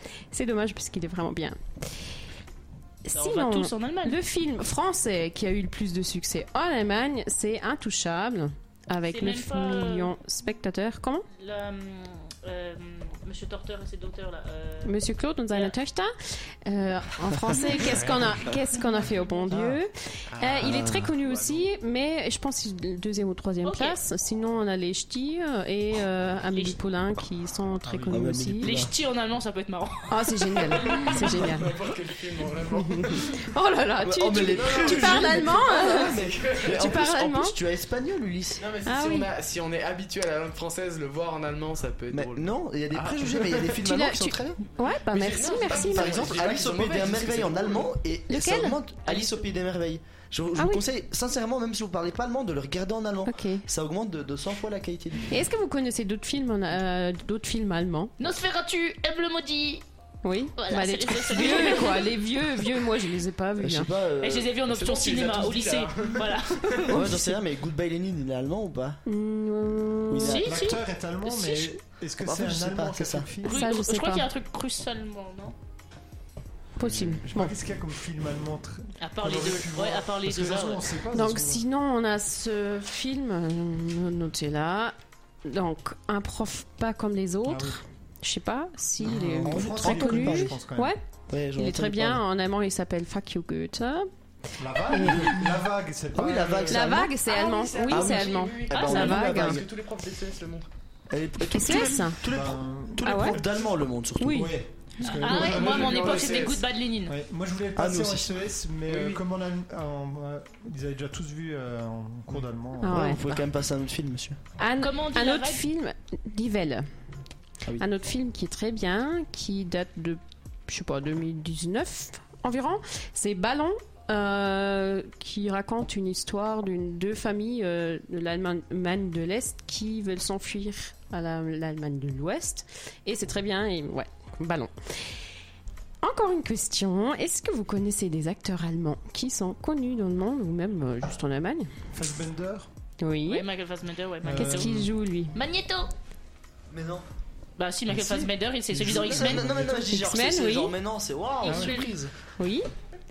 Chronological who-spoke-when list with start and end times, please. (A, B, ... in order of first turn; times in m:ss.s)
0:00.3-0:01.6 A
0:03.1-0:11.2 A
0:03.1-0:04.2 B
0:09.1-0:10.1 B
0:11.3-0:15.0 B
0:14.8-0:16.1 A
0:16.6-0:28.8 A
0:17.8-0:18.6 C
0:19.5-0:19.8 C
0:20.3-0:21.6 D
0:20.7-0:21.0 E
0:23.6-0:24.0 B
0:27.8-0:28.2 C
0:28.1-0:28.9 E
0:28.6-0:30.9 B
0:30.1-0:31.7 A
0:30.8-0:33.3 D
0:32.7-0:37.6 A
0:34.0-0:38.7 E
0:34.5-0:36.9 D
0:38.6-0:43.8 D
0:38.8-0:39.3 A
0:42.1-0:44.6 E
0:43.8-0:46.3 A
0:45.1-0:47.9 D
0:45.7-0:55.4 E
0:48.3-0:48.8 A
0:50.6-0:50.8 A
0:53.2-0:53.6 A
0:55.3-0:58.1 A
0:58.2-0:59.8 B
1:00.2-1:03.9 A
1:00.6-1:02.2 B
1:03.6-1:04.6 E
1:04.2-1:07.0 B
1:04.7-1:06.9 D
1:06.9-1:09.0 E
1:06.9-1:07.4 A
1:09.1-1:10.4 A
1:10.1-1:10.6 E
1:10.2-1:11.7 B
1:10.4-1:13.6 C
1:12.2-1:13.3 E
1:13.4-1:15.6 B
1:13.4-1:14.3 A
1:16.8-1:17.5 A
1:16.8-1:17.2 D
1:17.2-1:21.6 C
1:19.0-1:20.9 B
1:21.1-1:31.0 A
1:27.4-1:27.8 C
1:29.0-1:30.6 E
1:29.4-1:30.9 C
1:31.3-1:32.2 E
1:31.5-1:34.1 A
1:34.6-1:36.9 C
1:34.9-1:35.6 A
1:36.1-1:37.2 E
1:36.7-1:39.6 A
1:37.2-1:40.7 D
1:37.9-1:39.6 E
1:38.7-1:39.4 B
1:41.1-1:44.5 E
1:41.5-1:42.2 A
1:42.3-1:43.8 C
1:43.0-1:43.4 A
1:44.2-1:44.6 A
1:44.3-1:53.0 C
1:45.0-1:47.2 B
1:45.2-1:46.6 D
1:47.8-1:48.3 E
1:48.9-1:49.2 D
1:52.8-1:53.2 A
1:52.8-1:54.4 E
1:54.6-1:56.9 A
1:54.8-1:55.6 B
1:57.8-2:14.7 A
2:16.0-2:21.7 A
2:21.9-2:22.7 C
2:23.0-2:23.5 A
2:23.3-2:24.7 B
2:24.2-2:24.9 C
2:24.4-2:25.3 A
2:25.3-2:25.9 B
2:26.7-2:27.0 E
2:27.6-2:29.7 B
2:27.9-2:28.3 C
2:28.7-2:32.1 E
2:28.8-2:29.8 C
2:29.6-2:30.8 A
2:31.4-2:31.9 B
2:31.4-2:31.8 C
2:32.4-2:32.7 A